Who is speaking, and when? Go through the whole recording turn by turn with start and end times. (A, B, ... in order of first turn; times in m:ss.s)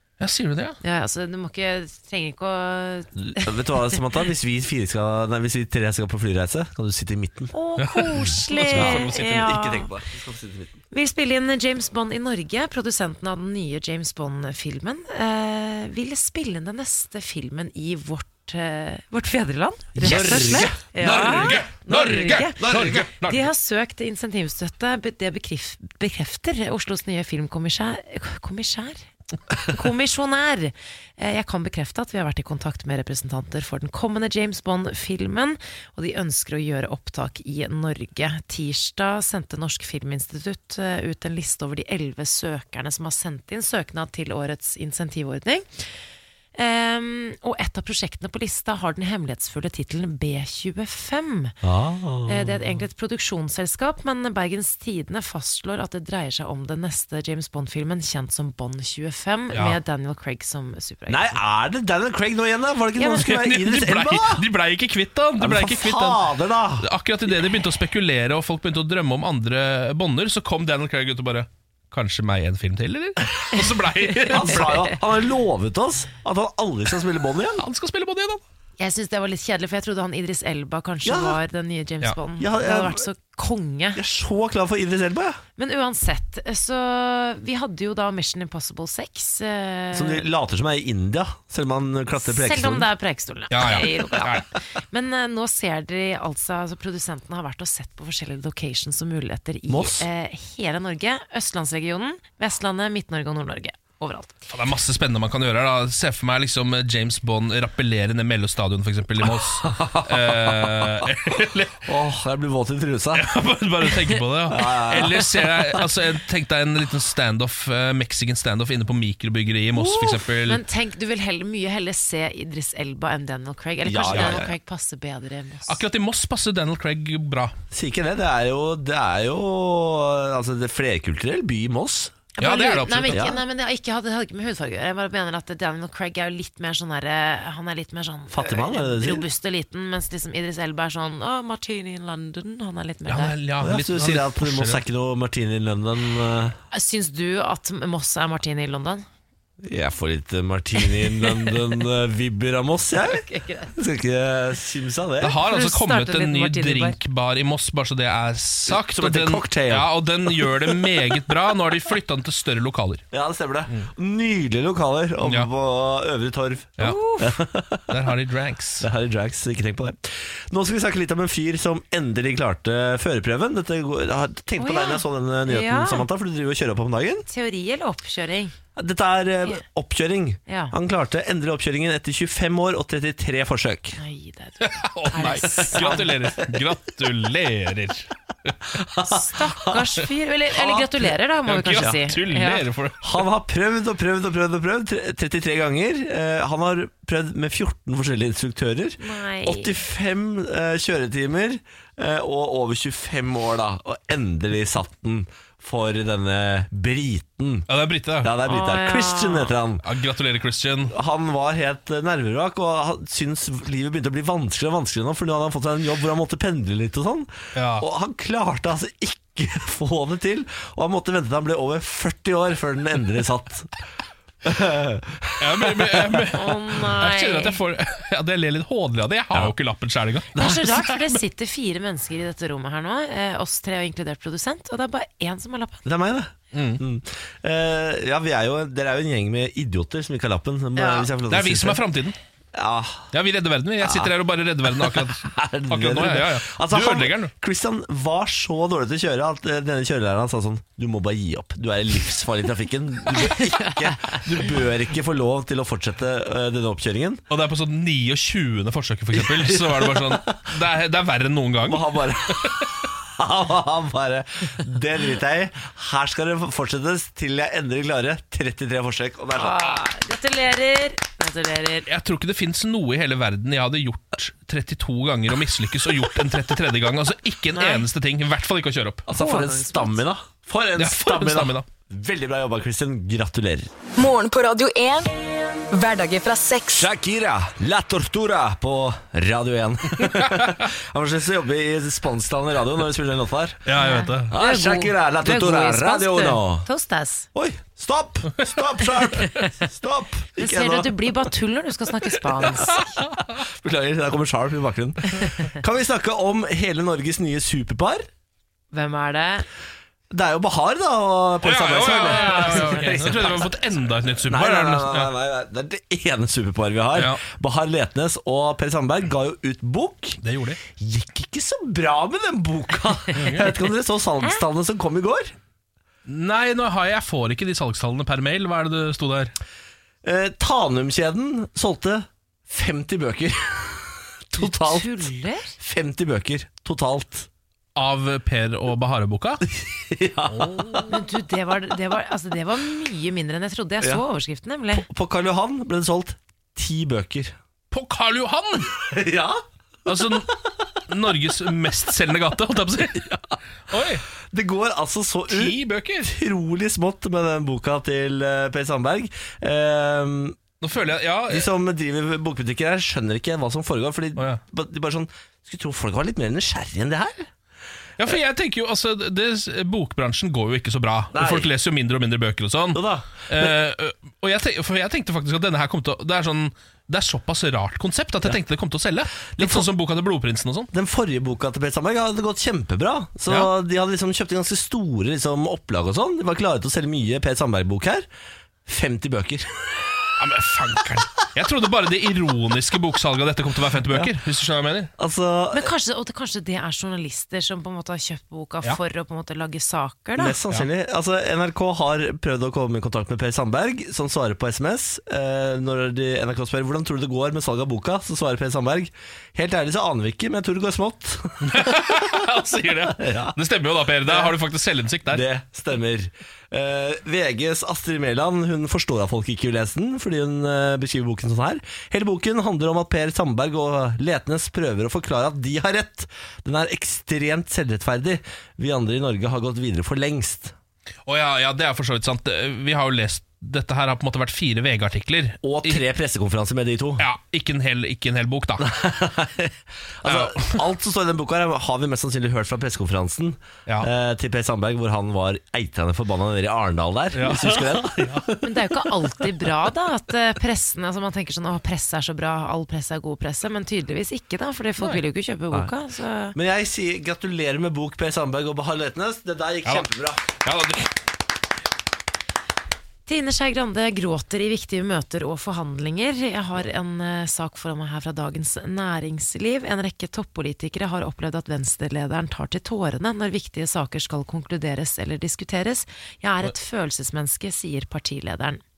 0:00.2-0:00.8 A
0:00.8-0:04.0 B
0:03.2-0:07.5 C
0:07.5-0:09.9 B
0:07.8-0:09.6 A
0:08.7-0:10.8 C
0:10.9-0:29.1 B
0:20.0-0:23.1 C
0:20.0-0:23.5 A
0:29.7-0:45.8 B
0:46.6-0:51.6 B
0:51.6-0:52.8 C
0:52.3-1:01.4 B
0:59.5-0:59.8 A
1:01.1-1:04.4 C
1:03.0-1:14.9 A
1:05.4-1:06.9 C
1:14.3-1:17.6 C
1:14.4-1:14.8 B
1:17.6-1:18.4 A
1:18.8-1:24.0 B
1:21.0-1:21.4 C
1:22.4-1:23.0 C
1:24.0-1:25.4 C
1:25.6-1:30.2 B
1:29.9-1:32.9 C
1:32.2-1:44.4 B
1:33.5-1:34.4 A
1:39.7-1:40.0 C
1:44.5-1:51.8 A
1:49.6-1:50.8 C
1:51.8-1:53.2 C
1:53.1-2:00.6 A
1:54.5-1:55.6 C
2:00.4-2:05.8 B
2:03.8-2:04.5 C
2:04.1-2:04.4 A
2:05.7-2:07.6 A
2:07.7-2:12.1 C
2:12.4-2:23.4 B
2:12.4-2:13.3 A
2:13.1-2:13.4 C
2:18.3-2:19.2 C
2:23.0-2:24.8 A
2:23.6-2:26.6 C
2:26.7-2:29.0 B
2:29.6-2:35.4 C
2:33.0-2:33.7 B
2:35.2-2:43.0 A
2:35.4-2:37.0 B
2:38.7-2:40.9 C
2:43.1-2:48.0 C
2:45.2-2:45.5 A
2:46.8-2:47.4 B
2:47.9-2:48.9 A
2:48.8-2:57.2 C
2:54.6-2:56.1 B
2:57.3-2:58.5 B
2:58.8-3:04.0 C
3:00.5-3:00.7 B
3:04.0-3:06.1 B
3:04.6-3:08.5 A
3:05.6-3:06.0 C
3:08.7-3:09.7 C
3:09.0-3:12.6 B
3:10.5-3:10.9 C
3:11.4-3:13.0 A
3:13.0-3:27.7 C
3:19.0-3:19.7 B
3:27.7-3:28.4 A
3:28.2-3:29.8 C
3:28.4-3:29.5 B
3:29.8-3:30.9 A
3:30.9-3:43.7 C
3:37.5-3:37.8 A
3:44.4-3:46.3 C
3:45.4-3:51.1 A
3:46.3-3:47.6 B
3:50.4-3:55.8 B
3:55.8-4:01.8 C
3:56.5-3:56.8 A
4:00.8-4:01.1 B
4:01.3-4:02.2 A
4:02.5-4:03.1 C
4:03.1-4:07.3 A
4:03.8-4:04.1 C
4:04.8-4:17.2 C
4:17.3-4:21.8 A
4:19.1-4:20.5 C
4:21.7-4:29.8 C
4:29.3-4:31.9 B
4:31.8-4:39.0 A
4:37.5-4:37.9 B
4:39.1-4:43.7 C
4:39.2-4:40.0 B
4:40.8-4:41.7 A
4:44.0-4:45.1 D
4:45.7-4:46.9 D
4:46.8-4:53.6 C
4:50.0-4:50.7 A
4:53.6-4:54.3 A
4:53.8-4:57.3 B
4:54.3-4:56.6 C
4:57.3-5:00.9 C
5:00.4-5:03.0 B
5:03.4-5:08.1 C
5:08.7-5:09.5 B
5:10.1-5:13.5 C
5:11.4-5:15.1 A
5:12.1-5:13.3 B
5:14.2-5:20.2 C
5:16.9-5:17.2 A
5:20.2-5:20.6 A
5:20.8-5:25.3 C
5:23.1-5:23.5 A
5:26.0-5:29.3 A
5:30.0-5:37.3 C
5:34.4-5:35.6 B
5:37.7-5:39.4 A
5:39.5-5:40.9 C
5:40.3-5:40.9 A
5:40.9-5:44.9 B
5:44.8-5:47.3 C
5:47.7-5:48.7 A
5:48.8-5:49.4 C
5:49.8-5:50.3 A
5:50.8-5:53.1 A
5:53.7-5:54.0 A
5:54.3-6:00.4 C
5:55.3-5:56.1 A
6:00.6-6:01.5 A
6:01.3-6:07.3 C
6:04.2-6:04.4 A
6:08.0-6:20.7 A
6:11.1-6:11.5 C
6:12.7-6:13.6 C
6:19.4-6:19.7 C
6:20.7-6:28.0 C
6:28.6-6:29.5 C
6:30.2-6:34.9 A
6:35.0-6:35.7 C
6:35.5-6:40.4 B
6:40.2-6:51.9 C
6:51.4-6:55.2 A
6:53.0-6:53.4 C
6:54.0-6:54.3 C
6:55.1-7:10.5 C
7:11.0-7:15.8 A
7:15.4-7:17.0 C
7:17.0-7:18.6 A
7:18.6-7:28.5 C
7:20.0-7:20.6 A
7:27.1-7:28.2 A
7:28.4-7:36.4 B
7:36.3-7:40.2 C
7:39.6-7:40.9 A
7:43.0-7:58.6 B